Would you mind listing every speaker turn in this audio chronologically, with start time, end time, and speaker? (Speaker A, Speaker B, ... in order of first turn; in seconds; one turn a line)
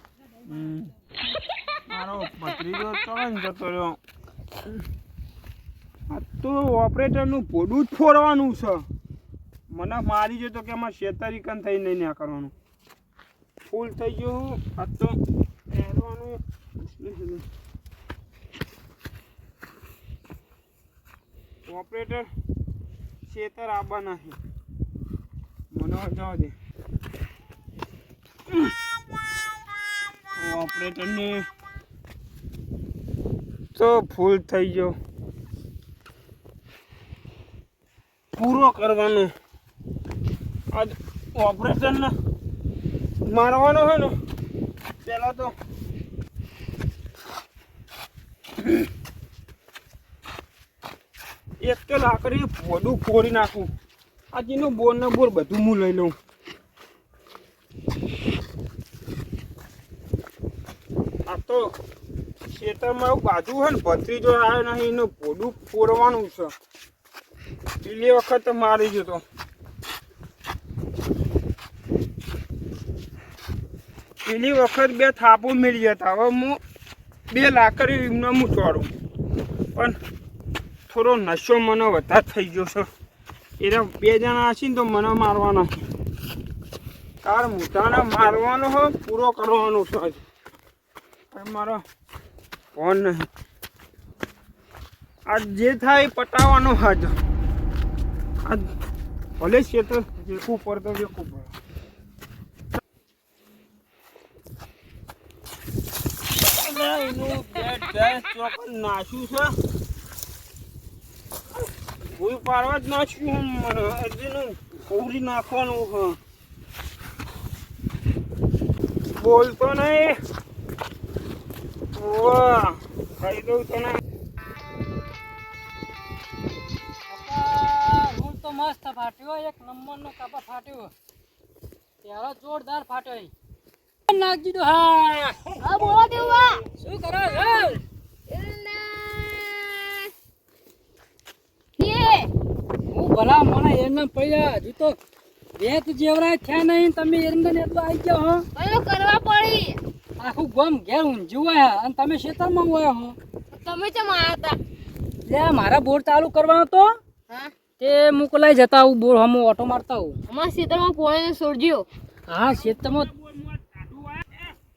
Speaker A: 0.5-0.9
Speaker A: 1.9-4.0
Speaker A: 6.1-8.9
Speaker A: 9.7-12.5
Speaker A: 13.7-15.2
Speaker A: 15.7-17.4
Speaker A: 21.7-22.3
Speaker A: 23.3-24.4
Speaker A: 25.7-26.6
Speaker A: 30.4-31.4
Speaker A: 33.8-35.0
Speaker A: 38.4-39.3
Speaker A: 40.7-42.1
Speaker A: 43.3-44.1
Speaker A: 45.0-45.5
Speaker A: 51.6-53.7
Speaker A: 54.3-56.1
Speaker A: 61.3-61.7
Speaker A: 62.5-66.5
Speaker A: 67.8-69.2
Speaker A: 74.2-76.6
Speaker A: 77.3-78.9
Speaker A: 80.9-82.9
Speaker A: 83.6-85.8
Speaker A: 87.2-90.2
Speaker A: 91.3-91.8
Speaker A: 92.8-93.3
Speaker A: 95.3-97.1
Speaker A: 98.4-98.7
Speaker A: 99.4-101.5
Speaker A: 106.4-109.5
Speaker A: 112.1-116.2
Speaker A: 119.2-120.2
Speaker A: 122.0-124.0
Speaker B: 127.1-130.9
Speaker B: 132.0-133.3
Speaker B: 134.1-135.6
Speaker C: 135.6-136.7
Speaker B: 136.7-137.8
Speaker C: 138.3-140.1
Speaker C: 141.8-142.3
Speaker B: 142.9-145.0
Speaker B: 145.6-148.4
Speaker C: 148.6-149.8
Speaker B: 150.2-153.2
Speaker C: 153.5-154.6
Speaker B: 155.3-156.9
Speaker B: 157.8-160.2
Speaker C: 160.3-161.9
Speaker B: 162.3-163.1
Speaker A: 162.5-164.5